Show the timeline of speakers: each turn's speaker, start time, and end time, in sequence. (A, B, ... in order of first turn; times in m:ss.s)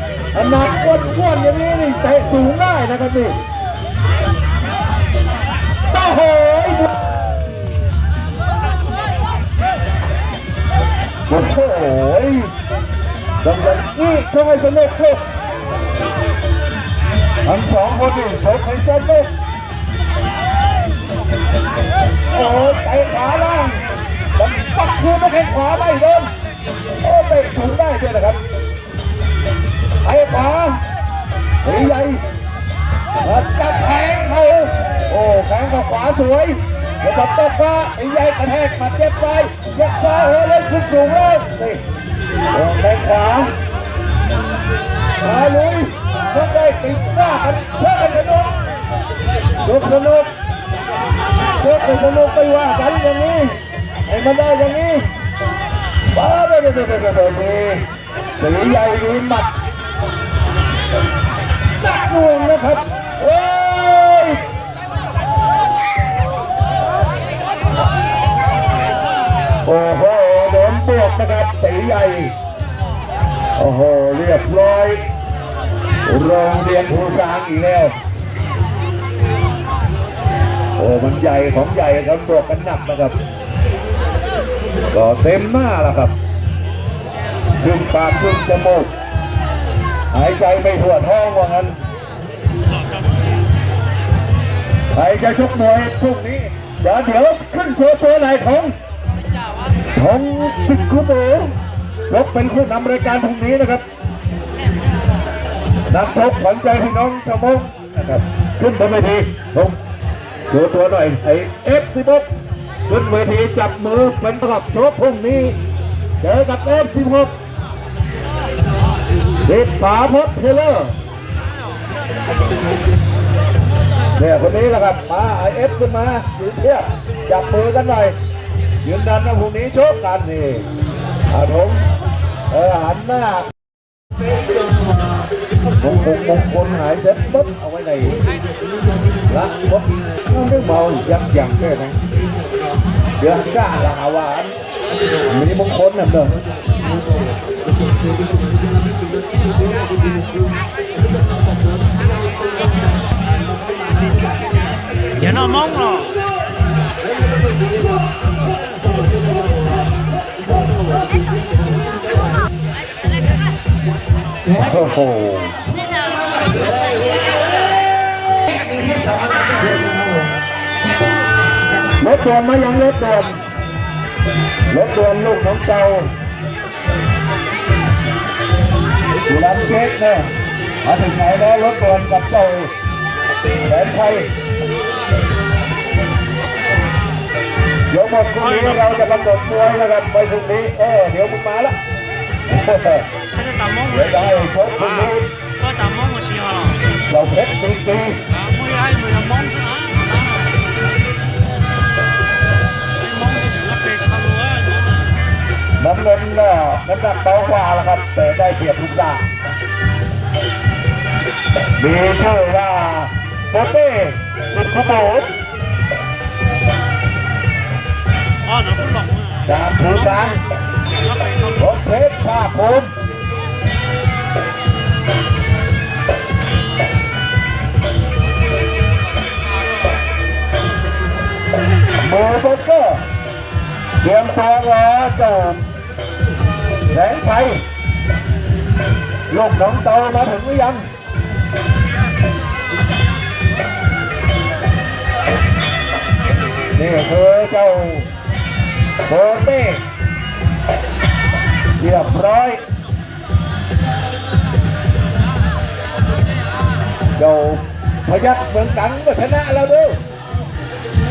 0:00.3-0:03.4 A
0:05.9-0:07.0 A
0:11.3-0:12.5 A
0:13.4-0:15.3 A
0:17.4-0:19.3 A
0:22.3-0:23.8 A
0:24.4-0:26.3 A
0:27.0-0:28.4 A
0:30.0-0:30.8 A
0:31.6-0:32.2 A
0:33.2-0:41.8 A
0:42.5-0:43.6 A
0:45.2-0:48.6 A
0:49.6-0:50.3 A
0:51.6-0:55.1 A
0:56.1-0:57.9 A
0:58.4-0:59.5 A
1:01.8-1:04.5 A
1:09.6-1:12.4 A
1:13.6-1:15.0 A
1:16.0-1:18.0 A
1:20.8-1:23.2 A
1:24.9-1:26.2 A
1:27.6-1:28.9 A
1:30.1-1:31.8 A
1:32.7-1:33.4 B
1:34.9-1:38.8 A
1:39.9-1:41.6 A
1:42.1-1:43.8 A
1:45.9-1:49.8 A
1:50.5-1:52.3 A
1:52.9-1:55.6 A
1:56.2-1:57.4 A
1:59.4-2:01.0 A
2:04.2-2:08.2 A
2:08.8-2:10.7 A
2:11.3-2:11.9 A
2:12.5-2:13.5 A
2:15.8-2:18.2 A
2:19.3-2:22.0 A
2:23.2-2:24.5 A
2:25.2-2:26.4 A
2:35.2-2:36.2 B
2:44.5-2:45.6 A
2:52.0-2:53.4 A
2:54.7-2:56.1 A
2:59.3-3:00.3 A
3:00.8-3:02.7 A
3:03.6-3:04.3 A
3:07.9-3:11.7 A
3:08.4-3:09.0 B
3:12.5-3:13.1 A
3:13.3-3:16.9 B
3:13.9-3:15.3 A
3:17.1-3:18.2 A
3:18.3-3:20.7 B
3:23.0-3:25.2 B
3:25.8-3:29.3 A
3:31.8-3:35.3 A
3:38.4-3:41.8 B
3:39.5-3:40.4 A
3:41.6-3:42.9 A
3:52.0-3:53.0 A
3:54.0-3:55.6 A
3:56.9-3:57.6 A
3:59.3-4:00.9 A
4:06.8-4:08.1 A
4:09.0-4:09.8 A
4:11.8-4:12.6 A
4:17.2-4:20.0 A